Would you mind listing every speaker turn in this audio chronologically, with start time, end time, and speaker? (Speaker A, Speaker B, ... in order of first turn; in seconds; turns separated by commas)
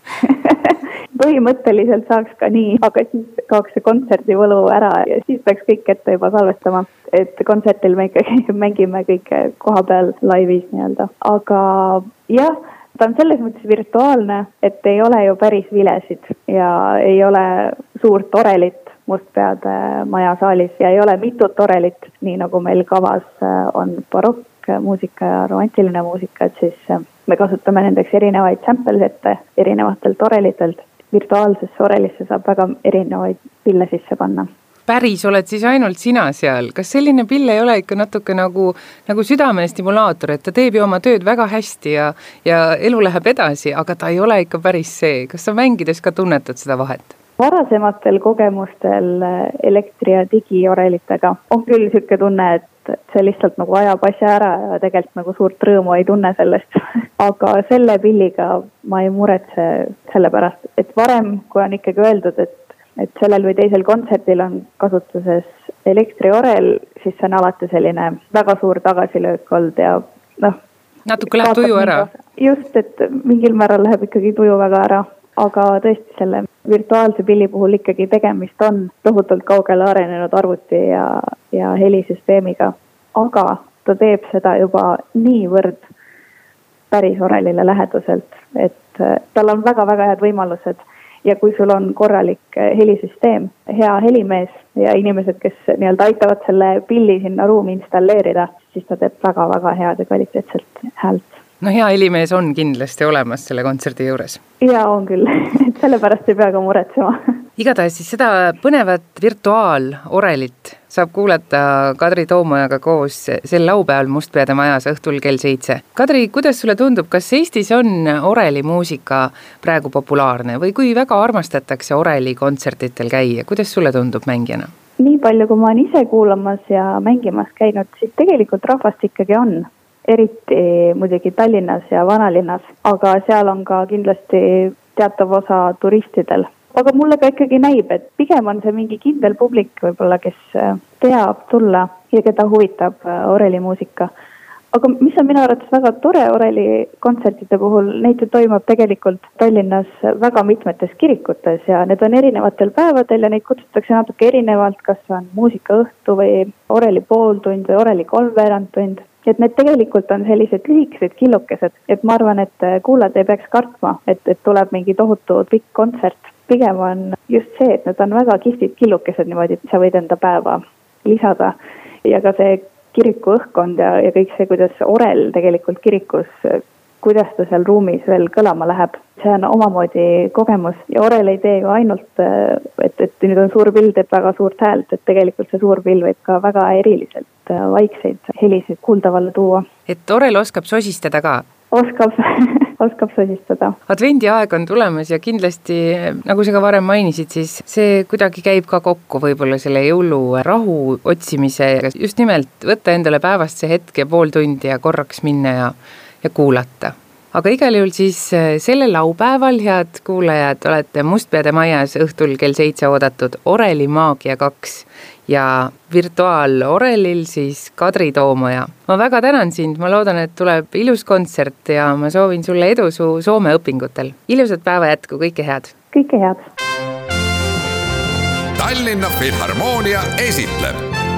Speaker A: 0.2-34.5, Speaker B: 34.9-47.1, Speaker A: 47.4-70.6, Speaker B: 71.1-72.1, Speaker A: 71.2-85.9, Speaker A: 86.9-101.4, Speaker B: 101.6-104.4, Speaker A: 104.6-107.2, Speaker B: 107.6-124.7, Speaker A: 125.0-144.1, Speaker A: 144.7-189.6, Speaker B: 189.9-191.4, Speaker A: 191.7-193.8, Speaker B: 193.9-225.7, Speaker A: 225.9-226.5, Speaker C: 228.6-230.8